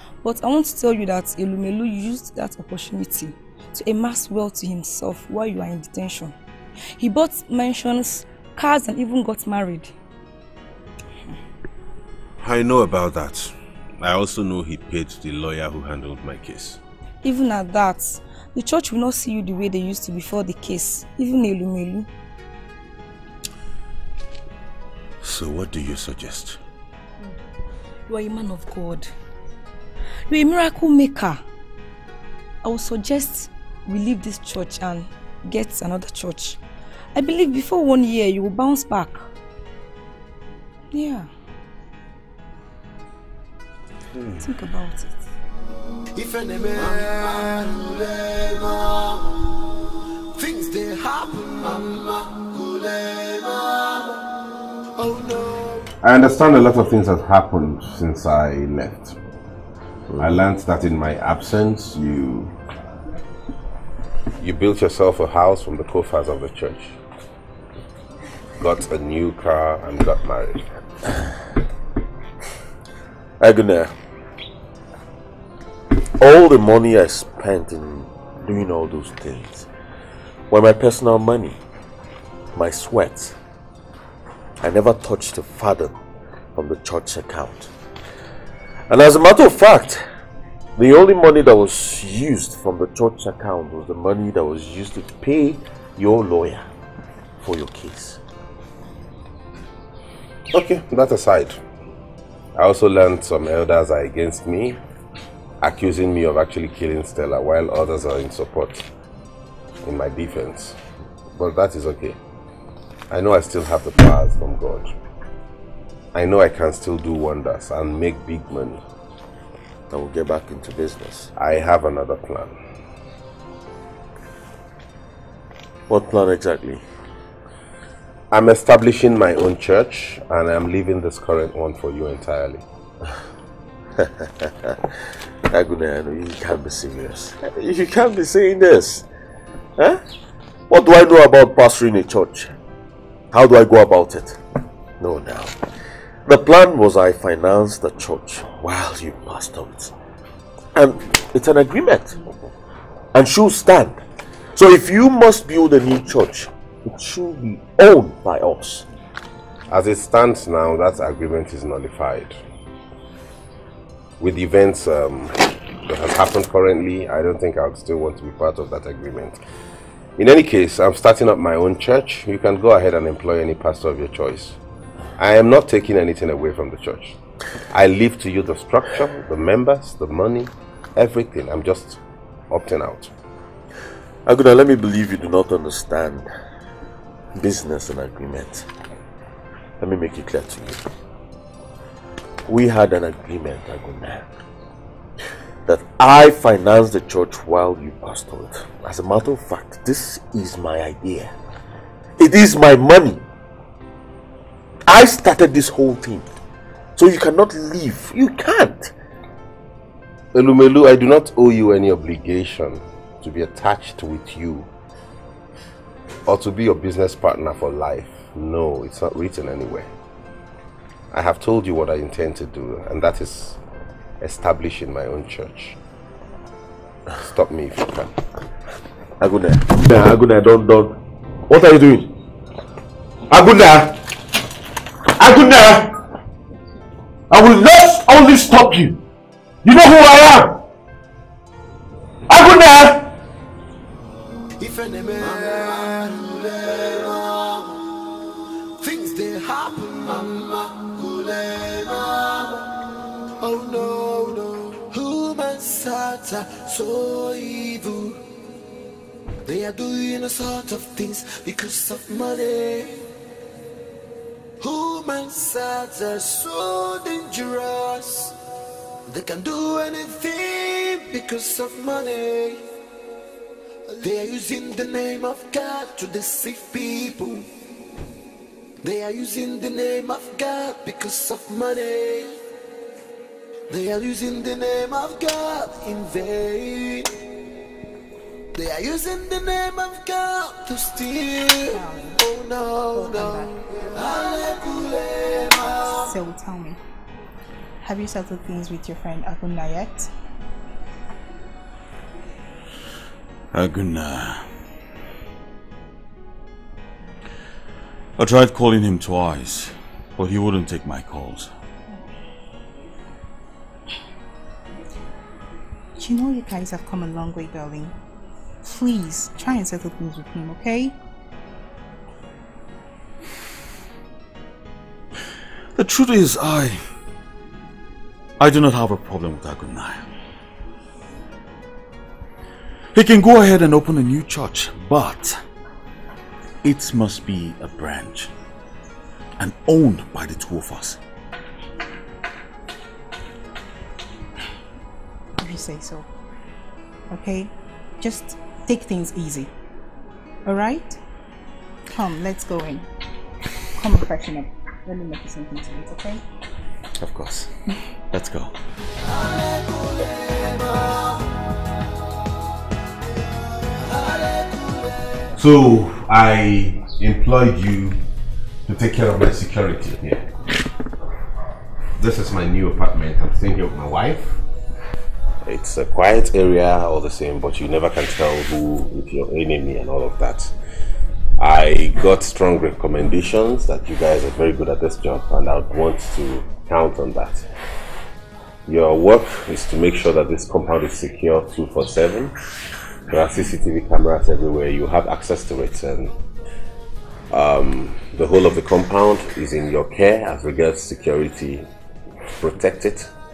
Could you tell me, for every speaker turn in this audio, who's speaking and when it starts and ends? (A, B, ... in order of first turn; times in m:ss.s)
0:00.2-0:06.3 A
0:07.0-0:09.9 A
0:12.4-0:16.8 B
0:17.2-0:22.1 A
0:25.2-0:26.4 B
0:28.1-0:29.1 A
0:30.3-0:31.4 A
0:32.6-0:36.6 A
0:37.1-0:39.3 A
0:40.9-0:41.3 A
0:44.3-0:45.3 A
0:46.2-0:49.4 C
0:50.4-0:54.2 C
0:55.0-0:55.9 C
0:56.0-0:59.2 B
1:00.1-1:02.6 B
1:04.4-1:07.0 B
1:08.6-1:10.7 B
1:13.4-1:13.9 D
1:16.2-1:19.7 D
1:20.5-1:21.6 D
1:22.6-1:23.4 D
1:24.6-1:25.9 D
1:26.6-1:27.7 D
1:28.9-1:30.0 D
1:30.8-1:36.6 D
1:37.4-1:38.2 D
1:40.5-1:41.6 B
1:42.6-1:44.8 B
1:45.6-1:48.9 B
1:49.8-1:50.8 B
1:51.4-1:52.2 B
1:53.1-1:54.9 B
1:56.2-1:58.8 B
1:59.9-2:01.3 D
2:01.4-2:02.6 B
2:05.9-2:06.8 D
2:08.3-2:12.6 B
2:15.5-2:19.0 D
2:20.7-2:22.5 D
2:23.3-2:24.4 D
2:25.0-2:25.6 D
2:26.3-2:29.9 D
2:30.8-2:32.1 D
2:33.2-2:34.0 D
2:34.6-2:38.8 D
2:39.7-2:42.4 B
2:44.2-2:49.4 B
2:50.2-2:54.6 B
2:55.2-2:57.2 B
2:57.7-3:03.1 B
3:04.3-3:06.2 D
3:07.4-3:08.6 D
3:09.8-3:10.8 D
3:12.5-3:14.2 D
3:15.7-3:21.3 D
3:22.2-3:23.2 D
3:24.9-3:26.3 D
3:27.0-3:28.9 D
3:30.3-3:34.7 B
3:36.2-3:39.9 B
3:41.1-3:43.6 B
3:44.2-3:45.8 B
3:47.2-3:48.2 B
3:49.2-3:51.0 D
3:51.5-3:52.1 D
3:57.3-3:58.9 D
4:04.6-4:07.8 C
4:08.8-4:12.6 C
4:13.4-4:18.2 C
4:19.4-4:23.1 C
4:24.6-4:28.3 C
4:29.1-4:32.6 C
4:34.0-4:37.5 C
4:38.8-4:42.4 C
4:43.7-4:47.1 C
4:48.5-4:56.0 C
4:51.7-4:52.2 E
4:52.9-4:53.6 E
4:56.0-4:56.8 E
4:57.8-5:00.1 E
5:03.5-5:04.4 D
5:08.2-5:11.5 D
5:16.0-5:18.0 E
5:18.6-5:21.0 E
5:25.8-5:26.8 D
5:28.4-5:30.1 D
5:32.9-5:35.4 D
5:36.6-5:38.3 D
5:39.4-5:41.0 D
5:45.4-5:46.1 E
5:47.1-5:49.5 E
5:50.4-5:51.0 E
5:51.9-5:52.9 E
5:53.8-5:56.2 E
5:57.0-5:57.5 D
5:58.1-5:58.5 D
5:59.0-6:01.0 C
6:03.8-6:05.0 C
6:05.4-6:08.0 B
6:08.7-6:10.3 B
6:12.0-6:14.4 B
6:15.4-6:20.5 B
6:21.4-6:27.5 B
6:28.7-6:32.4 B
6:33.1-6:36.1 B
6:37.3-6:41.7 B
6:42.4-6:43.1 B